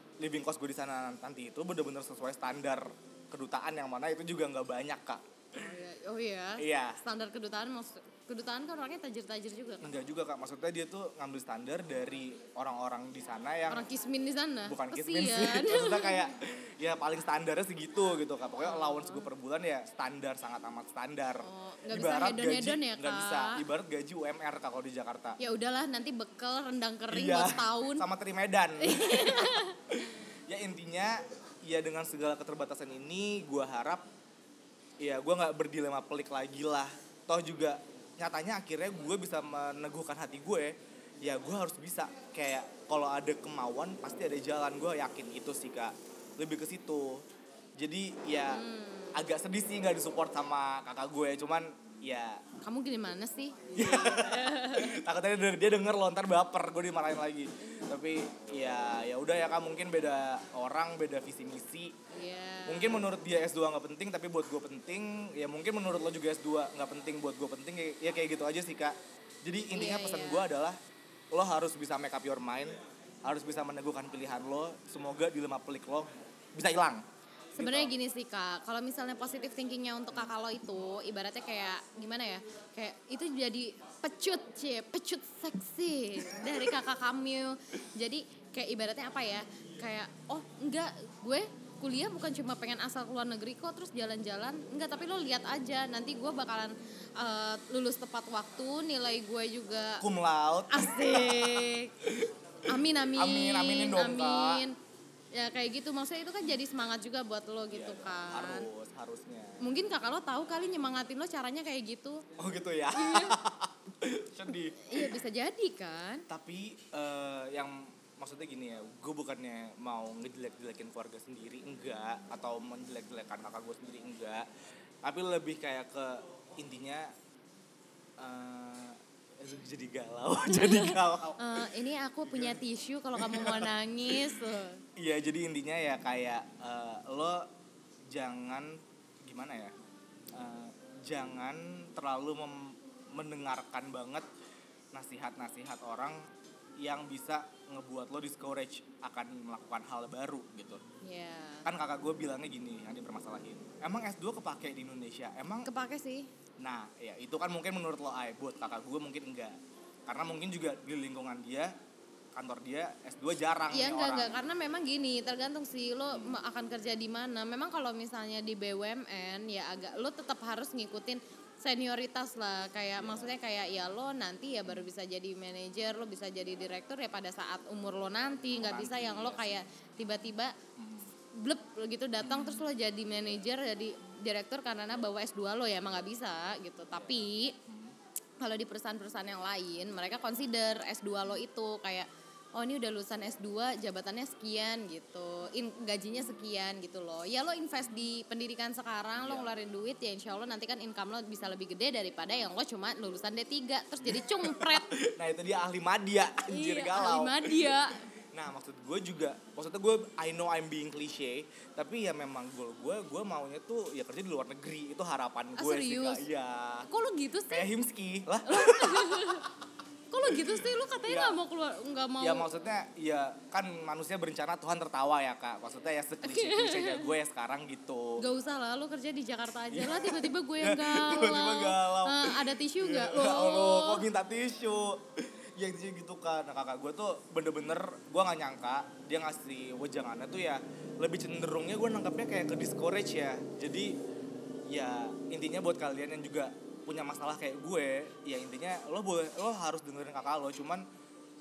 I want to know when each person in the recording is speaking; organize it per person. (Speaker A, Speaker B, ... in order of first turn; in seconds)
Speaker A: 0.2-5.2, 6.6-7.0, 9.8-13.8, 14.7-25.4, 27.1-34.0, 35.0-47.2, 47.8-52.4, 53.7-61.9, 62.7-70.8, 71.3-77.0, 77.5-77.9, 100.0-102.3, 103.2-104.6, 107.7-109.6, 112.4-115.1, 116.3-124.5, 125.0-127.1, 128.2-131.6, 132.2-132.6, 133.2-134.3, 134.9-137.5, 138.1-139.7, 140.3-144.2, 144.9-146.2, 146.8-150.8, 151.6-155.7, 156.6-161.7, 162.3-164.4, 166.1-166.4, 178.5-179.6, 180.8-181.1, 182.2-182.7, 187.7-187.9, 199.2-199.5, 204.0-216.9, 217.5-219.5, 220.3-221.4, 222.2-228.2, 229.7-244.0, 244.7-250.8
Speaker B: 5.5-9.9, 13.7-16.3, 18.6-19.3, 21.4-23.6, 25.4-28.1, 28.8-29.8, 48.5-49.2, 52.6-55.0, 57.6-57.9, 62.1-63.1, 69.7-70.4, 77.5-100.0, 100.7-101.9, 102.7-104.8, 105.3-108.7, 109.6-112.2, 112.9-113.4, 114.8-116.2, 130.5-134.8, 151.0-151.7, 155.6-156.3, 163.7-180.5, 181.3-187.6, 188.4-204.9, 206.5-208.0, 215.6-216.2, 216.9-217.7, 218.4-219.5, 220.1-222.5, 226.2-227.1, 228.2-234.0